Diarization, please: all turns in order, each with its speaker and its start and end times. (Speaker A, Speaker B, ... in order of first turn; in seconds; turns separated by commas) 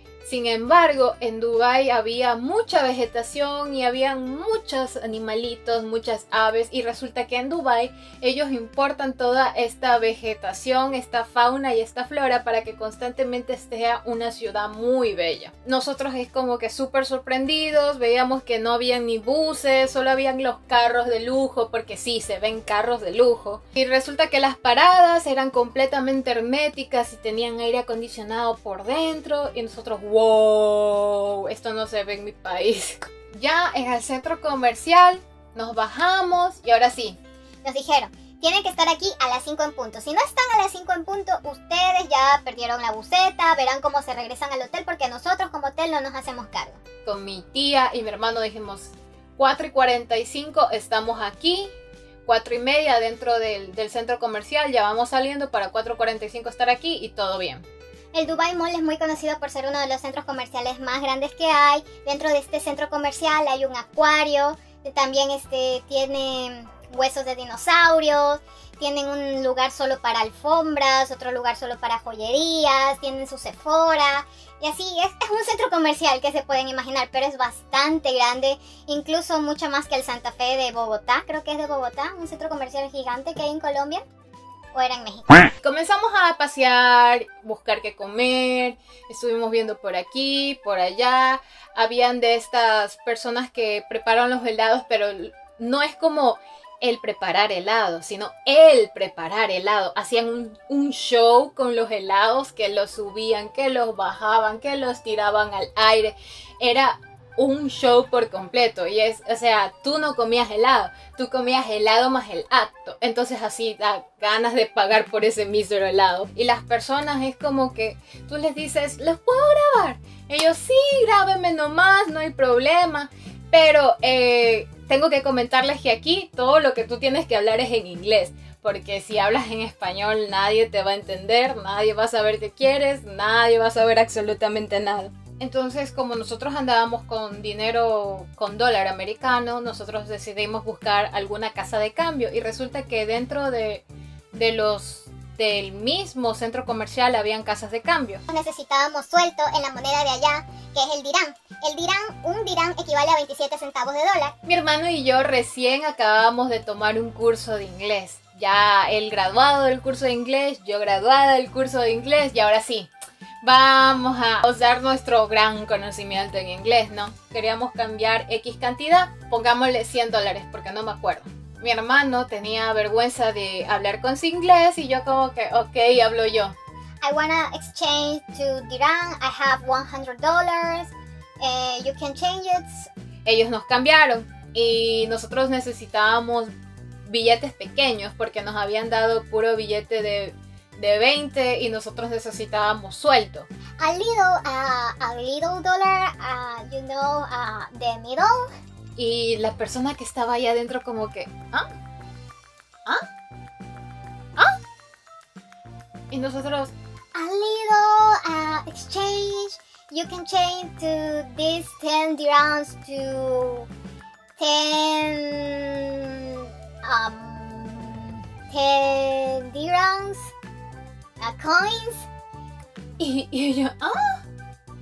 Speaker A: 0.2-37.2, Speaker B: 37.6-46.8, Speaker A: 47.0-51.7, Speaker A: 52.3-57.6, Speaker B: 58.1-84.0, Speaker B: 84.7-85.5, Speaker A: 85.6-148.2, Speaker B: 148.3-154.3, Speaker A: 154.4-162.9, Speaker A: 163.4-176.6, Speaker B: 177.0-182.9, Speaker A: 183.2-186.5, Speaker A: 187.1-193.5, Speaker B: 193.8-198.5, Speaker A: 199.0-201.7, Speaker A: 206.1-206.7, Speaker B: 207.2-213.7, Speaker B: 214.4-220.3, Speaker B: 221.2-222.1, Speaker A: 223.0-224.2